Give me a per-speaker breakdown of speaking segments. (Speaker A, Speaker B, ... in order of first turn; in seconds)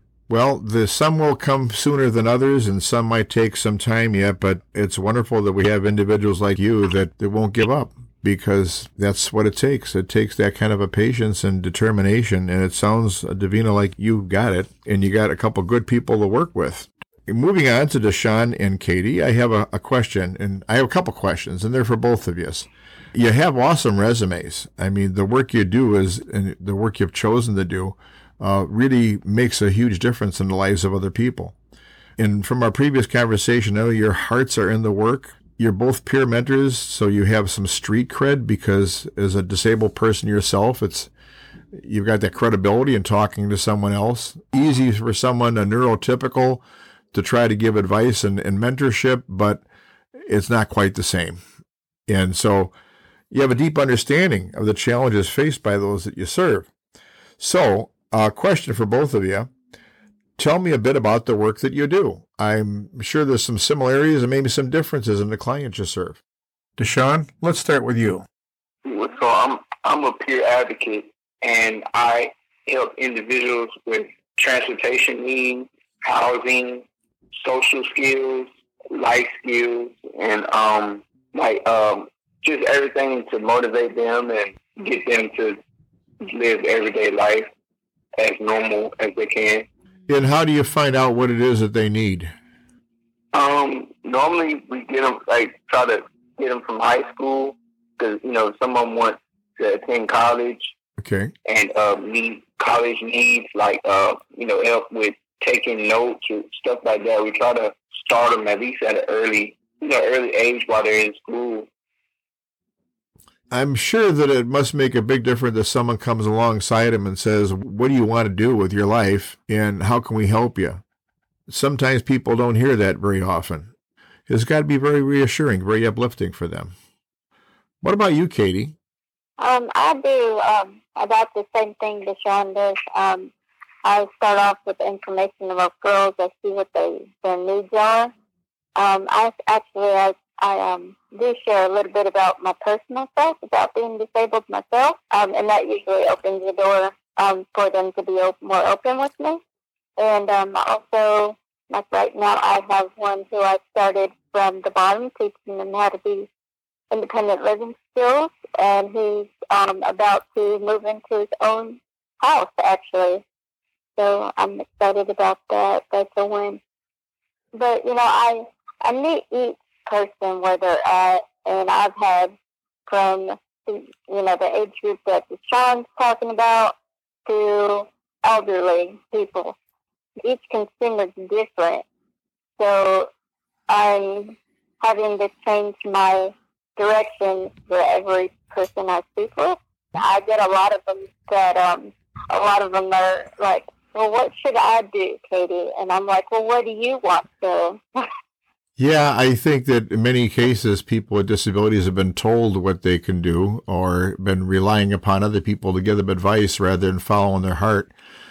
Speaker A: 0.3-31.6, 32.2-41.1, 41.7-49.6, 50.2-51.4, 52.1-52.7, 53.3-56.7, 57.4-59.5, 60.4-66.2, 66.8-68.2, 90.1-92.3, 101.0-101.3, 113.5-120.8, 121.5-123.7, 124.3-126.7, 127.8-128.8, 198.8-207.9
Speaker B: 68.8-76.8, 77.4-85.6, 86.2-87.5, 88.2-89.7, 93.3-100.7, 101.5-111.7
Speaker C: 129.4-133.3, 133.8-138.1, 138.8-149.4, 150.0-156.3, 156.9-163.2, 164.0-166.6, 167.5-172.3, 172.9-176.7, 177.3-179.6, 180.2-181.8, 182.6-183.1, 183.7-197.8